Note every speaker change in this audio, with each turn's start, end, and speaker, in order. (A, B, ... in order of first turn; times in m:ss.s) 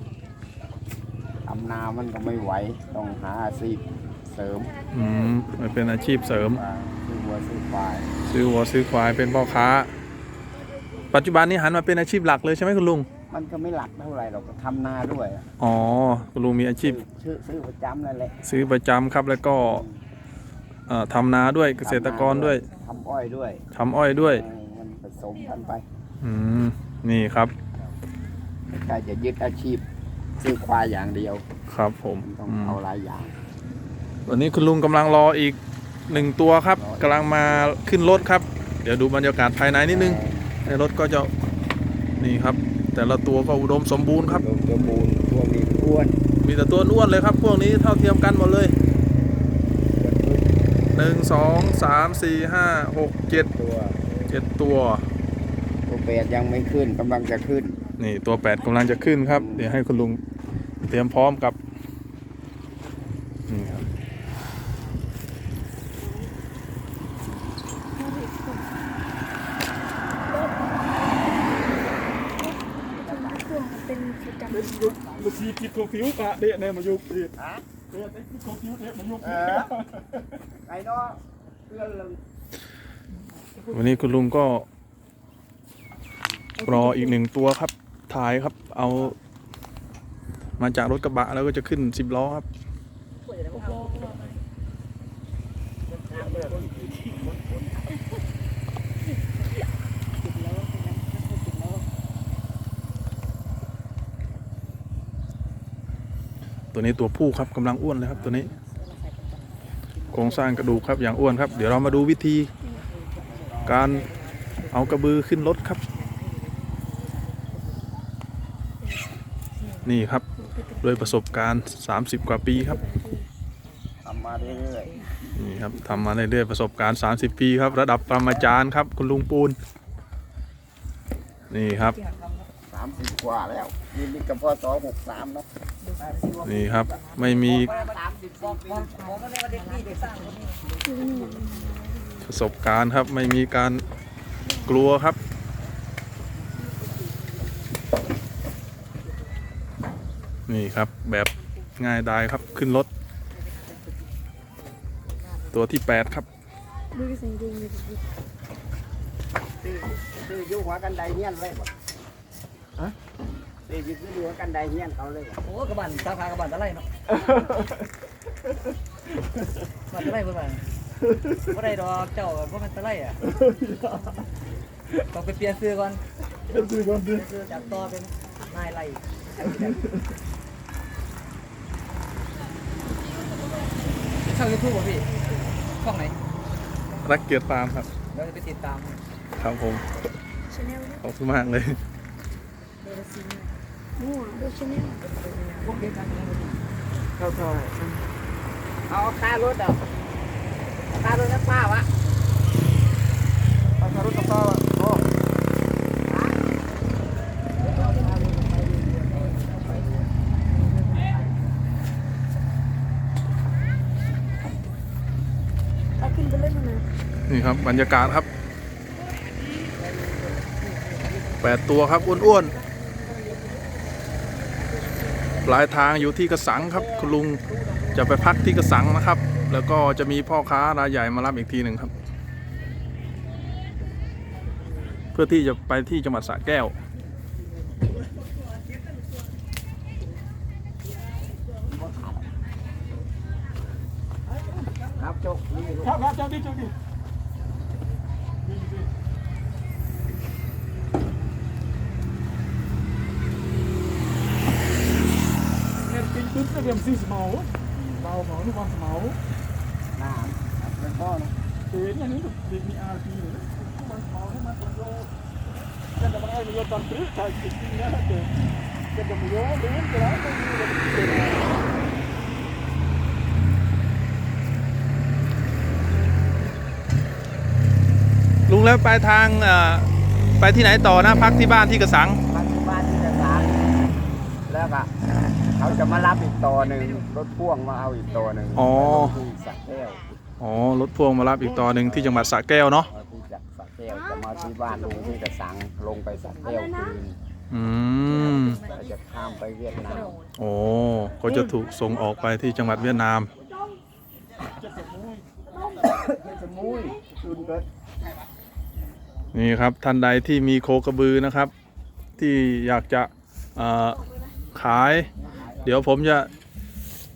0:01.4-0:04.7 A
0:04.9-0:06.6 B
0:06.4-0:08.1 A
0:08.3-0:09.9 B
0:11.1-0:13.1 B
0:13.3-0:15.5 A
0:15.6-0:17.0 B
0:16.8-0:18.4 A
0:18.4-0:19.8 B
0:19.6-0:20.0 A
0:20.9-0:22.6 B
0:21.8-0:23.6 A
0:23.7-0:24.4 B
0:24.2-0:25.8 A
0:26.2-0:27.5 B
0:28.8-0:29.8 A
0:30.4-0:31.4 A
0:31.7-0:32.8 B
0:32.2-0:33.3 A
0:34.3-0:41.3 B
0:36.1-0:37.4 A
0:39.9-0:40.5 A
0:42.2-0:44.4 B
0:44.3-0:46.2 A
0:46.4-0:48.7 B
0:50.0-0:50.5 A
0:50.9-0:53.5 B
0:53.4-0:54.3 A
0:54.3-0:55.0 B
0:55.9-0:57.8 A
0:58.0-1:00.2 B
0:59.3-0:59.8 A
1:00.8-1:01.6 B
1:03.5-1:03.8 B
1:12.7-1:13.5 A
1:13.5-1:14.6 C
1:14.2-1:17.3 D
1:17.3-1:17.6 A
1:17.9-1:19.7 D
1:19.2-1:19.7 A
1:20.6-1:22.2 A
1:23.7-1:24.6 B
1:26.6-1:29.2 B
1:30.6-1:32.4 B
1:33.6-1:34.0 E
1:36.3-1:37.4 A
1:40.6-1:41.1 E
1:46.7-1:48.5 B
1:48.8-1:49.3 E
1:50.1-1:52.5 B
1:51.7-1:52.0 A
1:53.4-1:53.7 A
1:53.6-1:54.1 B
1:54.7-1:55.8 B
1:59.8-2:00.2 B
2:00.8-2:02.8 B
2:02.8-2:03.2 D
2:04.0-2:05.0 A
2:05.4-2:09.6 B
2:11.5-2:12.0 B
2:12.0-2:12.4 E
2:12.7-2:15.5 A
2:16.0-2:19.0 A
2:16.2-2:16.9 E
2:16.4-2:17.7 B
2:17.5-2:20.8 E
2:20.9-2:21.3 C
2:20.9-2:21.7 D
2:22.2-2:23.8 B
2:24.6-2:25.2 B
2:30.5-2:32.9 B
2:35.5-2:36.2 B
2:37.0-2:38.0 D
2:39.6-2:41.7 A
2:43.6-2:45.4 A
2:45.4-2:46.8 E
2:49.9-2:50.6 E
2:51.5-2:53.2 E
2:53.7-2:54.0 D
2:55.1-2:56.0 E
2:56.5-2:57.2 D
2:57.0-2:59.9 E
3:04.2-3:05.1 E
3:05.7-3:06.2 E
3:07.0-3:07.9 B
3:08.1-3:09.0 E
3:09.4-3:09.8 B
3:10.5-3:11.0 D
3:11.0-3:11.8 B
3:12.8-3:15.9 D
3:15.6-3:16.4 E
3:17.2-3:17.9 D
3:18.9-3:19.8 A
3:20.9-3:21.9 A
3:23.8-3:25.0 D
3:26.1-3:26.4 A
3:27.6-3:30.1 A
3:27.8-3:28.9 E
3:36.0-3:36.6 D
3:36.0-3:36.8 C
3:37.3-3:38.3 B
3:41.4-3:42.6 B
3:45.4-3:51.9 B
3:55.1-3:56.7 B
4:01.7-4:02.3 A
4:05.0-4:06.0 A
4:05.8-4:06.7 D
4:08.5-4:08.8 D
4:15.9-4:19.2 D
4:19.9-4:21.3 A
4:21.7-4:25.1 D
4:26.0-4:31.5 D
4:38.5-4:42.2 B
4:42.3-4:43.7 A
4:44.5-4:44.9 A
4:45.5-4:50.1 A
4:48.6-4:49.2 B
4:50.4-4:52.9 B
4:52.9-4:57.2 A
4:57.5-4:58.6 B
4:58.5-5:00.2 A
5:00.4-5:03.3 B
5:04.6-5:05.2 D
5:05.7-5:07.6 A
5:09.3-5:11.5 B
5:12.2-5:14.0 B
5:14.5-5:15.1 B
5:15.2-5:15.8 A
5:15.6-5:16.3 B